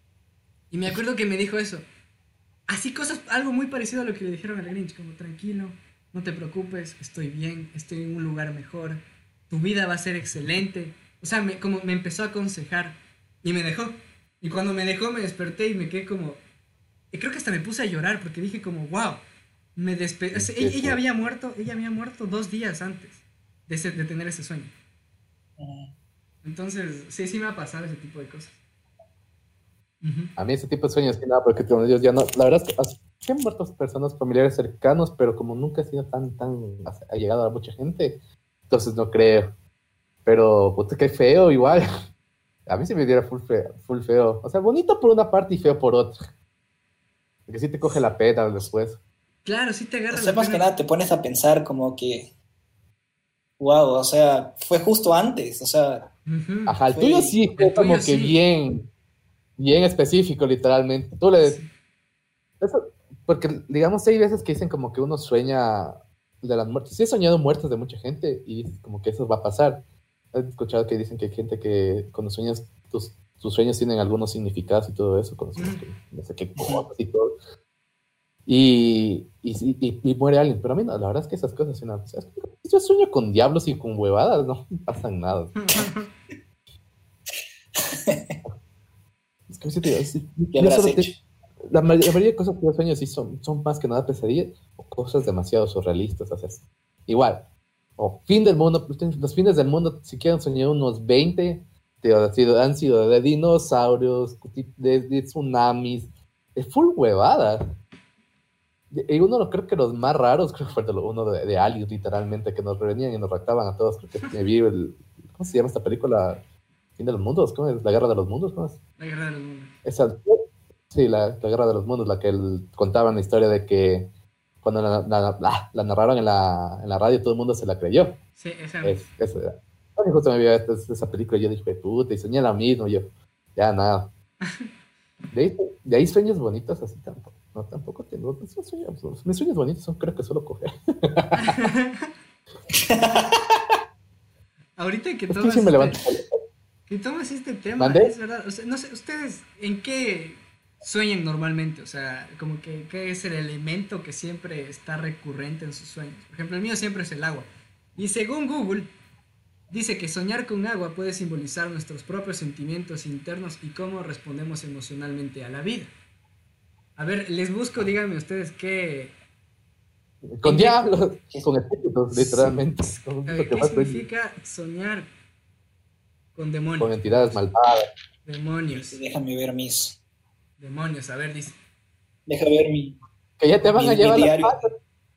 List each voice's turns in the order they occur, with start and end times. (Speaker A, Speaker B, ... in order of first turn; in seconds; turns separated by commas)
Speaker A: 0.7-1.9, Speaker A: 2.7-16.4, Speaker A: 17.1-19.2, Speaker A: 19.8-24.7, Speaker B: 20.3-21.0, Speaker C: 25.6-25.9, Speaker A: 26.4-28.6, Speaker A: 30.0-30.3, Speaker B: 30.4-38.1, Speaker B: 38.7-39.5, Speaker B: 40.2-41.9, Speaker B: 42.7-46.2, Speaker B: 47.5-49.0, Speaker A: 49.4-50.7, Speaker C: 50.1-52.3, Speaker C: 53.6-56.1, Speaker A: 56.3-56.8, Speaker B: 56.7-58.8, Speaker C: 56.9-57.4, Speaker A: 57.5-58.4, Speaker B: 59.6-61.6, Speaker A: 61.4-61.7, Speaker B: 62.6-69.8, Speaker B: 70.3-77.3, Speaker A: 75.5-75.8, Speaker B: 78.5-85.5, Speaker A: 85.6-86.1, Speaker C: 87.8-88.4, Speaker B: 89.5-91.1, Speaker C: 90.5-91.2, Speaker B: 91.6-97.4, Speaker B: 98.0-107.6, Speaker B: 108.9-116.4, Speaker B: 117.0-118.8, Speaker A: 119.0-119.7, Speaker B: 119.8-120.4, Speaker B: 120.9-124.0, Speaker B: 124.6-128.1, Speaker A: 128.4-129.0, Speaker B: 128.8-133.0, Speaker B: 133.6-134.1, Speaker B: 135.3-141.4, Speaker A: 141.3-142.1, Speaker C: 142.7-143.5, Speaker A: 144.8-146.0, Speaker B: 145.3-146.3, Speaker A: 146.9-158.9, Speaker B: 147.8-148.1, Speaker A: 159.7-165.9, Speaker A: 166.9-169.1, Speaker B: 170.3-174.1, Speaker A: 170.4-170.8, Speaker A: 172.1-172.6, Speaker A: 173.2-175.1, Speaker A: 176.3-177.4, Speaker B: 176.8-177.9, Speaker A: 178.2-179.0, Speaker C: 178.7-180.0, Speaker A: 180.6-181.6, Speaker C: 182.3-183.0, Speaker B: 183.4-184.7, Speaker C: 183.7-184.7